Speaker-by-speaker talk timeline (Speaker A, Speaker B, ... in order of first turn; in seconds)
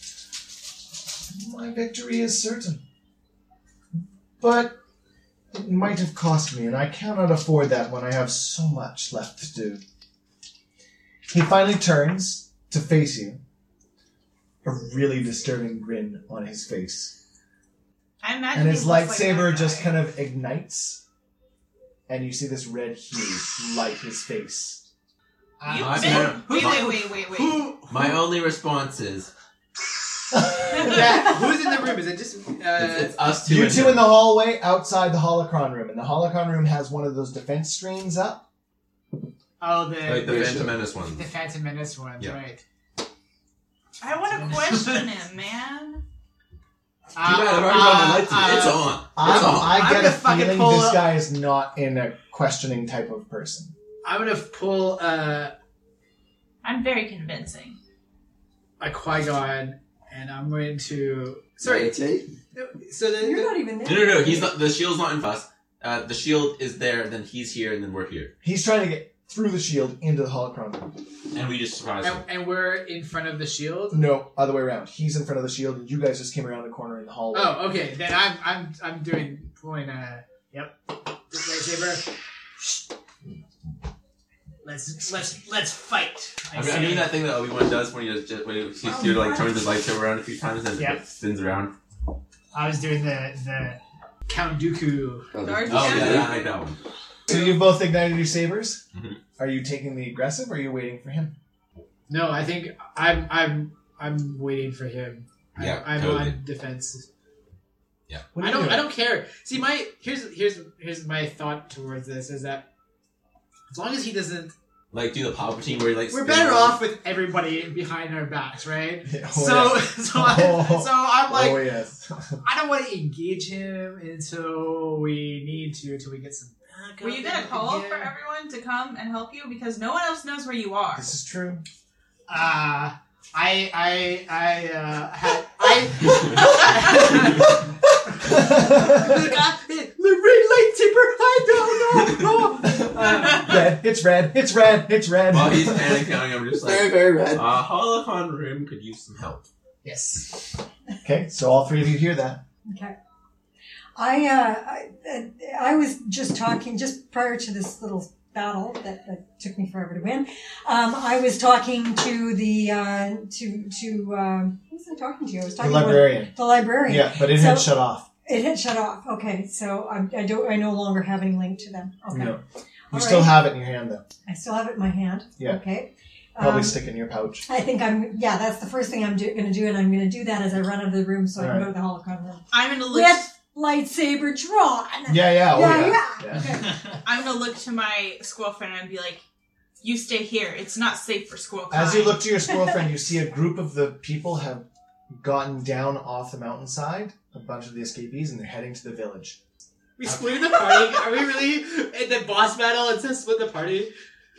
Speaker A: 1.2-2.8, 4.4-4.8, 5.5-9.8, 11.3-13.4, 14.6-17.1, 18.5-21.0, 22.1-24.8, 33.4-38.4, 49.1-53.7, 68.4-70.9, 73.9-77.6, 97.3-98.8, 99.4-101.3, 108.3-108.9, 119.0-122.4, 130.9-131.6, 138.2-139.3, 142.6-146.2, 151.0-152.4, 165.6-168.1, 172.1-174.0, 176.4-177.5, 181.4-181.7, 185.1-186.6, 191.7-194.7, 195.2-199.4
Speaker B: 18.2-19.9, 25.7-27.6, 44.0-46.0, 56.6-57.8, 88.9-89.4, 95.4-96.6, 127.0-131.1, 182.5-183.3, 187.0-189.2, 189.8-192.2
Speaker C: 25.6-28.2, 30.7-33.3, 39.6-42.6, 44.3-45.1, 47.1-51.1, 54.0-55.5, 58.8-61.9, 62.5-63.6, 72.0-74.0, 77.3-80.8, 81.3-82.0, 84.6-87.2, 92.5-95.3, 102.1-107.0, 108.4-112.7, 113.7-114.5, 116.1-121.6, 122.4-128.1, 132.3-137.6, 138.2-143.6, 149.8-150.5, 200.0-203.9
Speaker D: 25.7-26.9, 27.9-29.3, 32.8-34.2, 40.0-41.2, 47.2-49.9, 63.8-68.3, 71.3-72.2, 86.5-91.7, 95.7-96.8, 98.9-99.2, 105.5-106.4, 114.9-116.8, 145.3-149.5
Speaker E: 40.2-40.7, 61.6-62.3, 95.3-96.4, 146.6-147.5
Speaker F: 63.2-64.6, 152.7-152.9, 154.0-167.7, 168.2-172.4, 172.9-173.4, 174.2-176.8, 177.5-186.8